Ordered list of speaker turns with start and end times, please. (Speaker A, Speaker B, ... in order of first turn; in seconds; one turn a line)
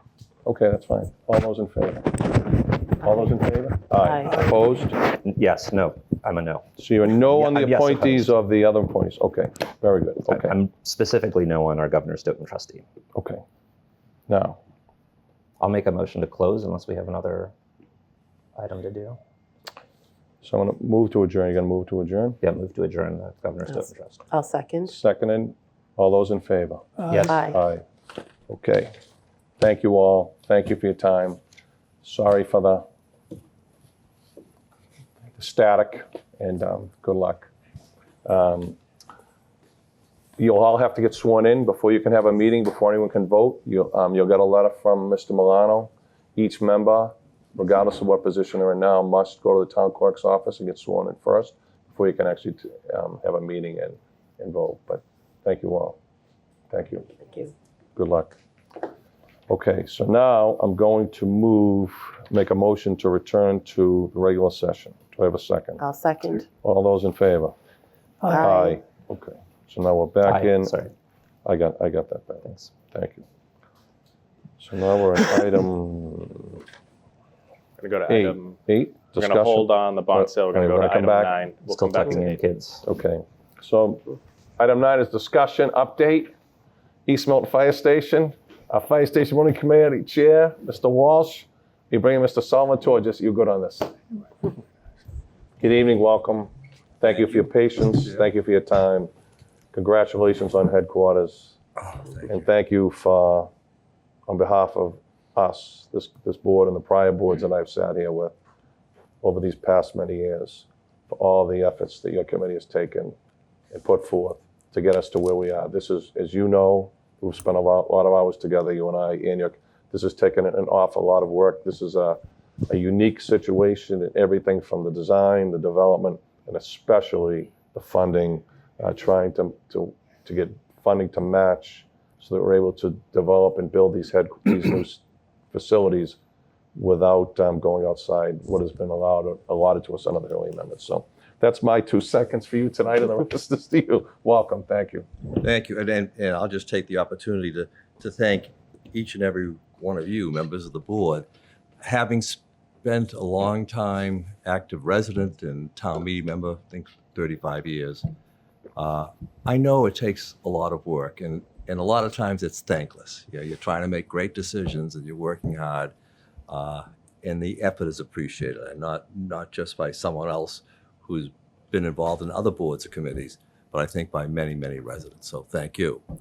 Speaker A: 0.5-5.0
Speaker B: 4.0-4.4
Speaker C: 5.0-8.3
Speaker A: 6.8-10.6
Speaker C: 10.3-12.8
Speaker A: 13.2-13.4
Speaker A: 14.3-14.6
Speaker C: 15.6-17.5
Speaker C: 18.6-19.2
Speaker A: 20.4-22.4
Speaker C: 22.4-24.2
Speaker B: 24.3-24.9
Speaker A: 24.9-27.8
Speaker C: 27.1-27.4
Speaker B: 27.3-27.6
Speaker A: 28.5-28.9
Speaker A: 29.6-31.4
Speaker A: 32.0-32.8
Speaker A: 35.4-37.5
Speaker A: 38.2-38.8
Speaker A: 40.4-56.0
Speaker A: 56.7-57.1
Speaker A: 58.0-58.4
Speaker A: 59.5-65.8
Speaker B: 65.8-66.5
Speaker A: 66.6-67.5
Speaker B: 68.3-68.8
Speaker A: 68.3-70.8
Speaker C: 70.2-70.9
Speaker A: 71.5-73.2
Speaker C: 72.5-72.7
Speaker A: 74.6-76.6
Speaker D: 77.8-78.6
Speaker A: 78.1-81.4
Speaker D: 79.2-82.4
Speaker C: 81.7-82.8
Speaker A: 82.8-86.3
Speaker A: 87.1-94.0
Speaker A: 95.6-96.5
Speaker A: 97.0-99.1
Speaker A: 99.7-101.6
Speaker A: 102.2-103.5
Speaker A: 104.3-108.4
Speaker A: 109.2-113.2
Speaker A: 113.7-136.2
Speaker A: 136.8-145.1
Speaker E: 145.4-151.3
Speaker E: 151.8-158.1
Speaker E: 158.8-165.9
Speaker E: 166.5-176.0